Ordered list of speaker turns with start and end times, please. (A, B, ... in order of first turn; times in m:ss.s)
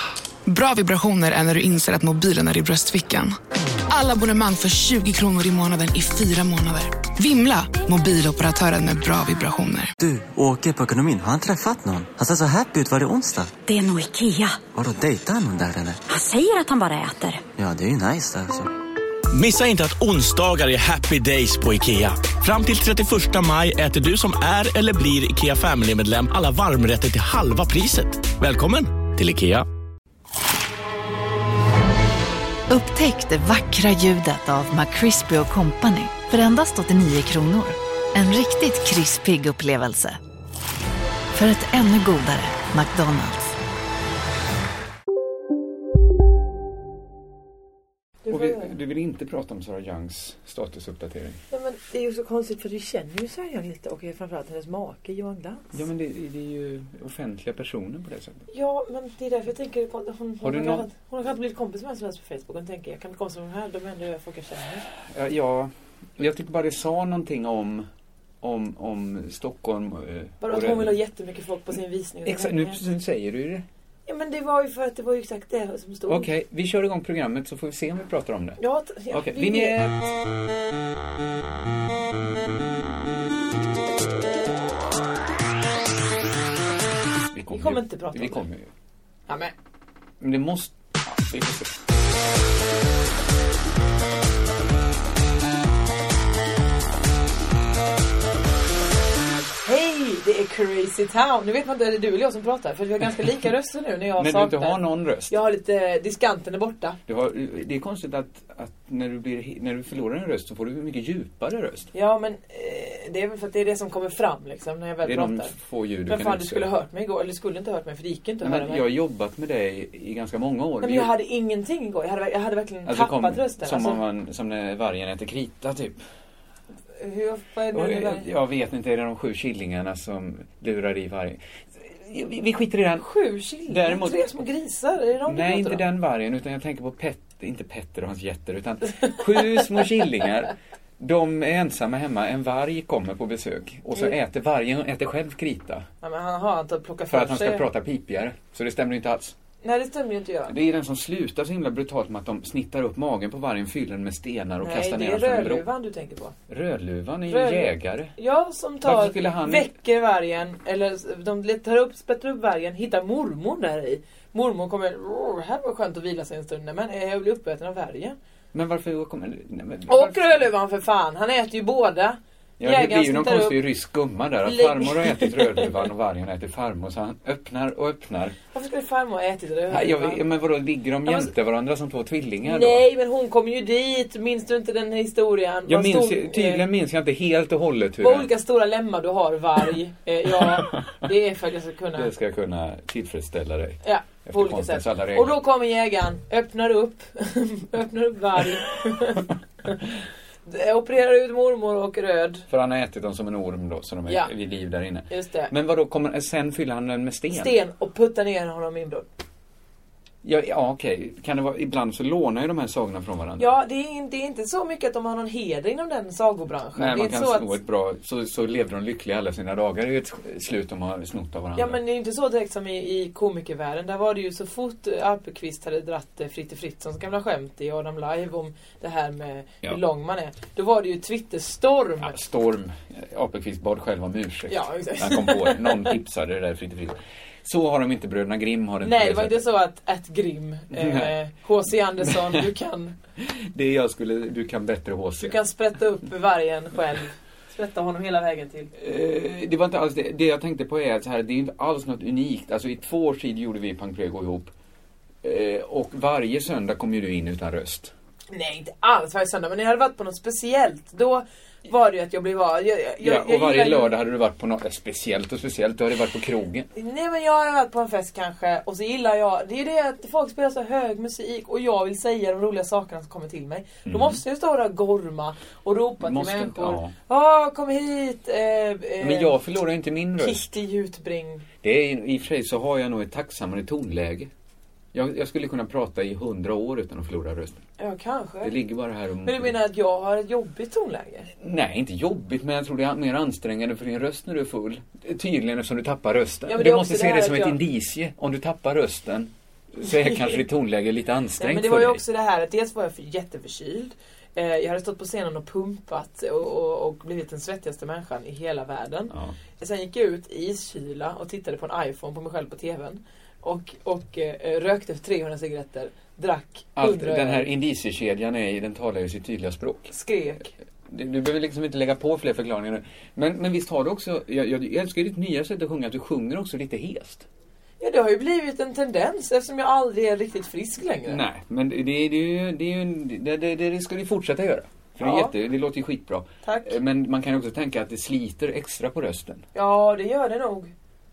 0:00.5-0:03.4 A
0:03.9-0:09.9 A
0:10.0-0:13.6 B
0:13.7-0:14.6 C
0:14.7-0:16.0 B
0:16.1-0:17.4 C
0:17.6-0:18.7 B
0:19.3-0:29.7 D
0:32.7-0:40.2 E
0:41.3-0:43.6 E
0:48.2-0:48.7 F
0:48.3-0:51.4 G
0:51.5-0:55.7 F
0:55.7-0:58.5 G
0:58.5-1:04.9 F
1:00.4-1:00.9 G
1:05.0-1:07.9 G
1:08.4-1:11.0 G
1:10.4-1:12.8 F
1:12.2-1:13.6 G
1:14.1-1:16.3 F
1:16.1-1:18.6 G
1:18.6-1:19.8 F
1:19.1-1:20.0 G
1:27.3-1:28.7 G
1:27.5-1:28.4 F
1:29.3-1:29.5 F
1:30.2-1:31.8 G
1:39.6-1:47.0 F
1:44.2-1:45.4 G
1:47.1-1:51.9 G
1:51.9-1:55.5 F
1:55.0-1:56.7 G
1:56.1-1:58.8 F
1:58.4-2:01.1 G
2:00.8-2:04.0 F
2:02.8-2:06.0 G
2:07.0-2:08.3 F
2:07.7-2:13.1 G
2:13.0-2:15.9 F
2:13.7-2:14.3 G
2:15.3-2:25.9 G
2:26.0-2:27.7 F
2:27.1-2:29.4 G
2:29.6-2:30.6 F
2:30.5-2:35.7 G
2:34.6-2:36.4 F
2:36.5-2:38.2 G
2:37.3-2:48.2 F
2:38.8-2:39.7 G
2:48.5-2:50.4 G
2:49.9-2:53.6 F
2:52.6-2:58.4 G
2:54.4-2:55.7 F
2:58.5-3:00.2 F
2:59.7-3:02.8 G
3:01.1-3:01.3 F
3:02.4-3:06.6 F
3:05.7-3:08.3 G
3:08.0-3:12.1 F
3:10.4-3:10.9 G
3:12.0-3:15.4 G
3:13.8-3:19.8 F
3:20.4-3:22.5 F
3:22.5-3:27.6 G
3:24.1-3:24.3 F
3:25.1-3:25.5 F
3:27.3-3:29.1 F
3:30.2-3:33.5 G
3:33.4-3:37.6 F
3:36.8-3:41.8 G
3:41.6-3:52.2 F
3:52.0-3:59.5 G
3:54.5-3:56.0 F
3:58.8-4:02.9 F
4:00.7-4:01.2 G
4:02.0-4:02.4 G
4:03.2-4:05.4 G
4:05.2-4:08.7 F
4:08.8-4:14.5 G
4:15.2-4:17.9 G
4:18.3-4:24.0 F
4:23.0-4:26.7 G
4:26.7-4:39.4 F
4:33.9-4:34.2 G
4:36.0-4:37.0 G
4:39.0-4:40.4 G
4:40.2-4:41.4 F
4:41.6-4:44.3 G
4:44.9-4:47.6 G
4:47.8-4:48.6 F
4:48.4-4:49.6 G
4:49.2-4:51.3 F
4:51.4-5:02.0 G
4:56.5-4:57.6 F
5:00.0-5:00.4 F
5:01.4-5:17.5 F
5:16.8-5:19.9 G
5:19.9-5:20.5 F
5:20.9-5:27.3 G
5:27.8-5:31.2 F
5:31.1-5:39.5 G
5:35.0-5:35.3 F
5:36.4-5:36.7 F
5:39.6-5:40.7 F